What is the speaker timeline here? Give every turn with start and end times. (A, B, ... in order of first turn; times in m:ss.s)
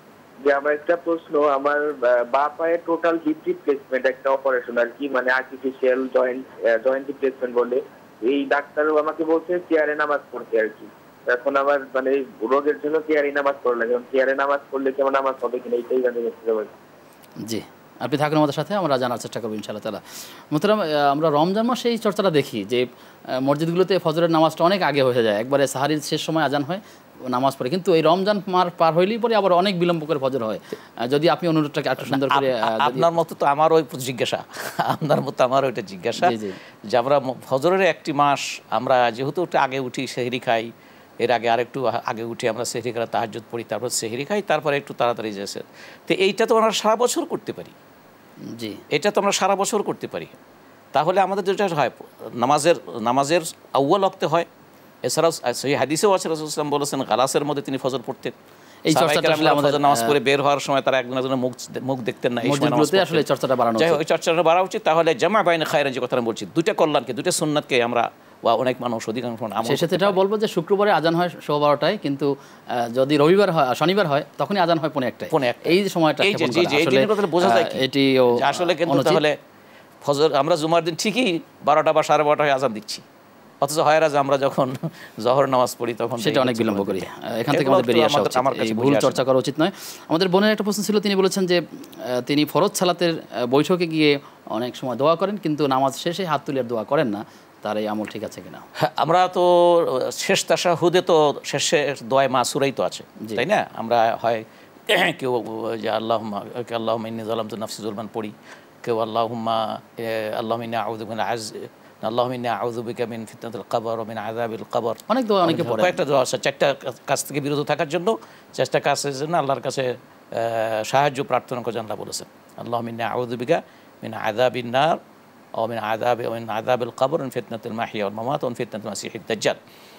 0:00.4-0:16.7 A
0:17.4-0:22.9 B
0:23.4-0:33.1 B
0:32.0-0:36.4 C
0:36.2-0:36.6 B
0:36.9-0:40.7 C
0:41.2-0:47.7 C
0:48.5-0:48.8 B
0:48.9-0:50.3 C
0:50.9-0:54.5 C
0:55.0-0:58.3 C
0:58.8-1:00.2 B
0:58.9-1:10.2 C
1:02.4-1:04.0 B
1:09.6-1:12.3 B
1:12.8-1:19.2 B
1:15.3-1:19.4 C
1:20.0-1:23.0 C
1:23.6-1:29.2 C
1:26.2-1:31.6 B
1:32.2-1:38.6 B
1:38.8-2:05.0 C
1:55.1-1:56.0 B
2:05.6-2:09.6 C